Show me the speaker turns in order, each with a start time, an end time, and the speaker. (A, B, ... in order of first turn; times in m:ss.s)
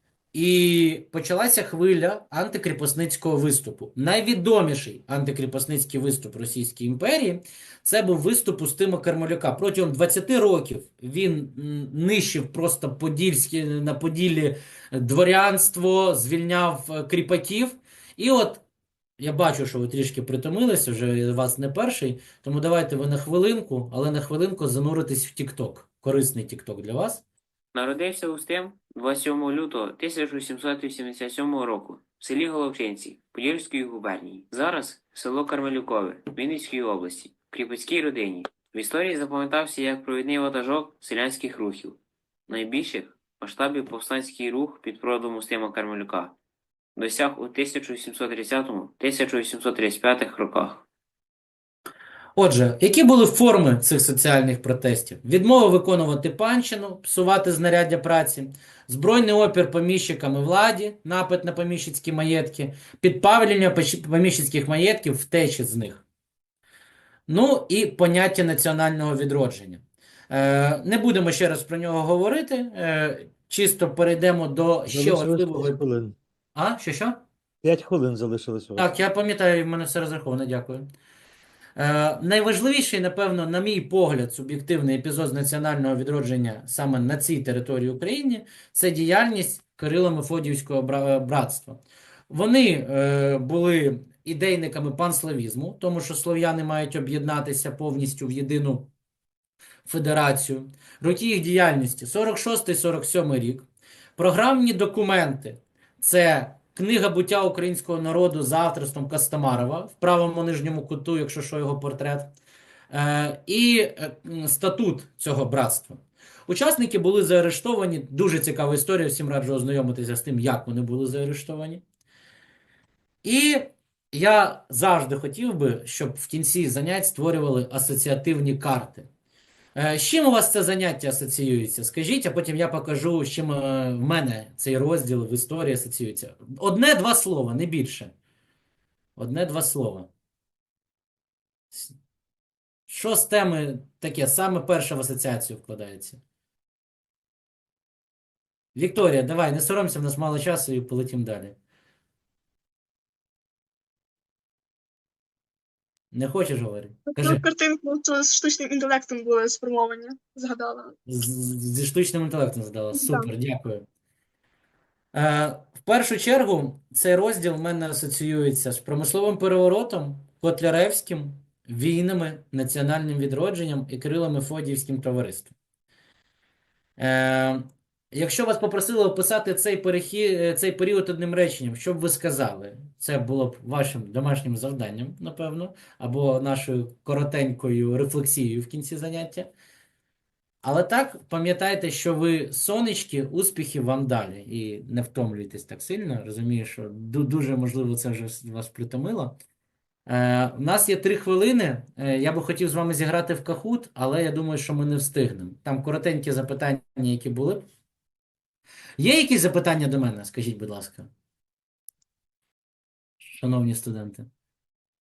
0:00.3-0:18.6 A
0:19.2-0:27.2 A
0:27.7-0:46.4 B
0:47.0-0:50.9 B
0:52.4-1:06.0 A
1:07.3-1:15.8 A
1:14.9-1:16.2 C
1:16.6-1:17.2 A
1:17.6-1:18.9 C
1:18.8-1:20.8 A
1:21.8-1:38.9 A
1:39.8-1:52.3 A
1:52.9-2:01.8 A
2:03.2-2:09.1 A
2:09.8-2:18.1 A
2:19.2-2:20.1 A
2:22.9-2:26.2 A
2:28.8-2:31.6 A
2:36.1-2:37.4 A
2:37.2-2:40.9 D
2:41.1-2:43.8 A
2:43.0-2:43.3 D
2:45.1-2:55.6 A
2:57.0-3:09.5 A
3:10.6-3:19.4 A
3:20.1-3:27.6 A
3:29.0-3:31.1 A
3:33.2-3:34.3 A